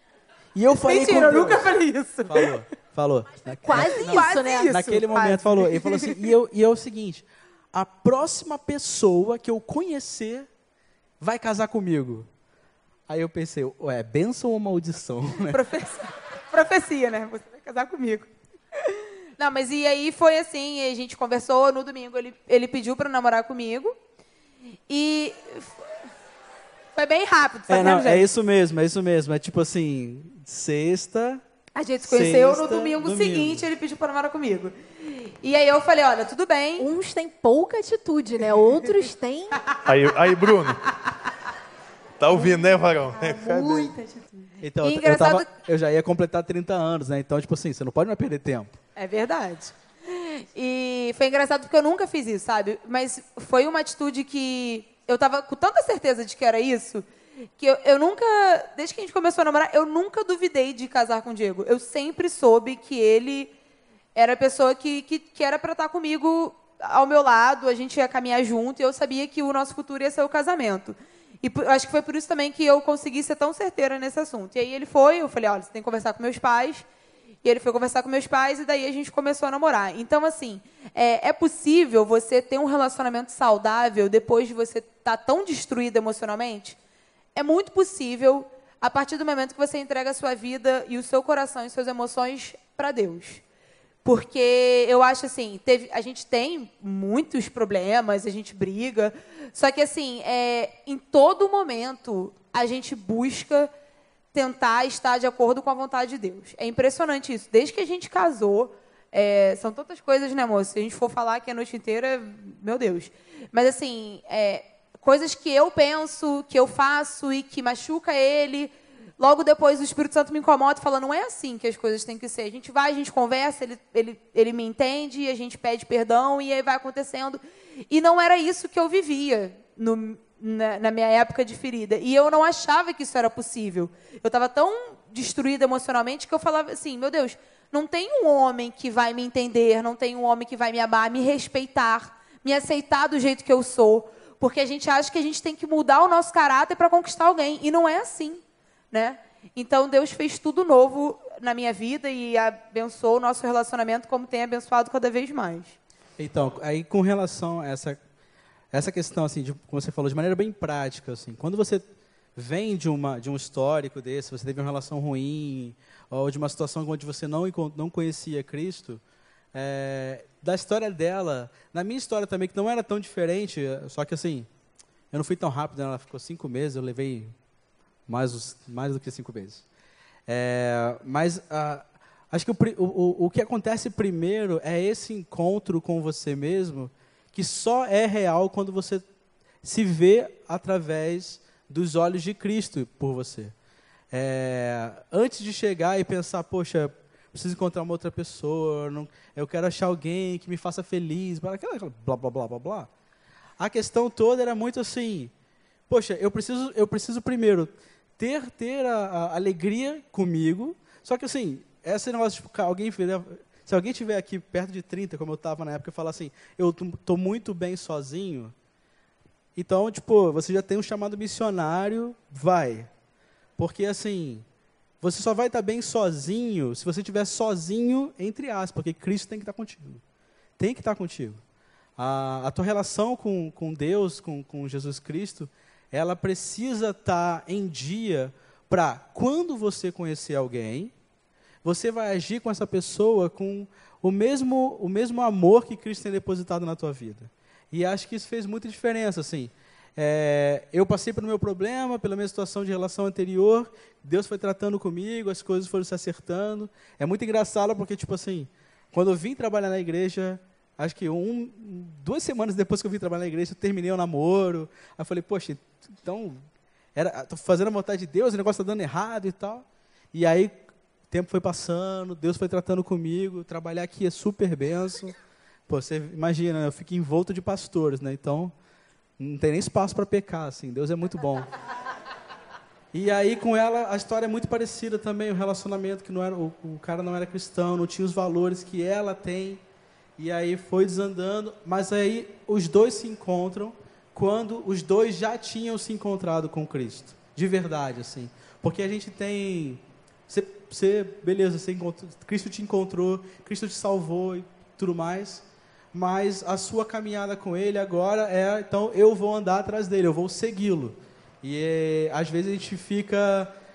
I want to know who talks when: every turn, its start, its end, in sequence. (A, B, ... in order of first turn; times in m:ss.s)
0:00.6-0:10.5 A
0:00.8-0:02.6 B
0:03.7-0:04.8 C
0:03.7-0:06.2 B
0:11.2-0:12.3 A
0:13.1-0:15.6 A
0:15.5-0:24.0 B
0:24.9-0:25.8 B
0:27.0-0:28.3 B
0:27.7-0:31.4 A
0:31.8-0:36.9 B
0:32.0-0:33.7 A
0:36.8-0:39.7 C
0:39.8-0:40.9 D
0:42.2-0:44.0 D
0:42.4-0:45.5 B
0:44.6-0:48.8 A
0:49.0-0:57.1 B
0:57.6-1:03.5 B
1:04.2-1:16.8 B
1:17.4-1:26.8 B
1:27.4-1:33.4 B
1:34.0-1:43.7 B
1:44.3-2:35.8 B
2:36.2-2:38.0 A
2:38.7-2:41.8 A
2:42.4-2:49.0 A
2:49.5-2:54.5 A
2:55.1-2:57.4 A
2:58.1-2:59.6 A
3:00.3-3:09.0 A
3:09.6-3:13.6 A
3:14.1-3:22.9 A
3:23.6-3:25.3 A
3:25.9-3:38.5 A
3:39.6-3:42.9 A
3:43.6-3:44.5 A
3:45.0-3:50.0 A
3:50.6-3:51.4 A
3:52.0-4:00.9 A
4:01.6-4:35.2 A
4:35.7-4:38.5 A
4:39.2-4:41.5 A
4:42.9-4:49.6 A
4:50.2-5:13.5 A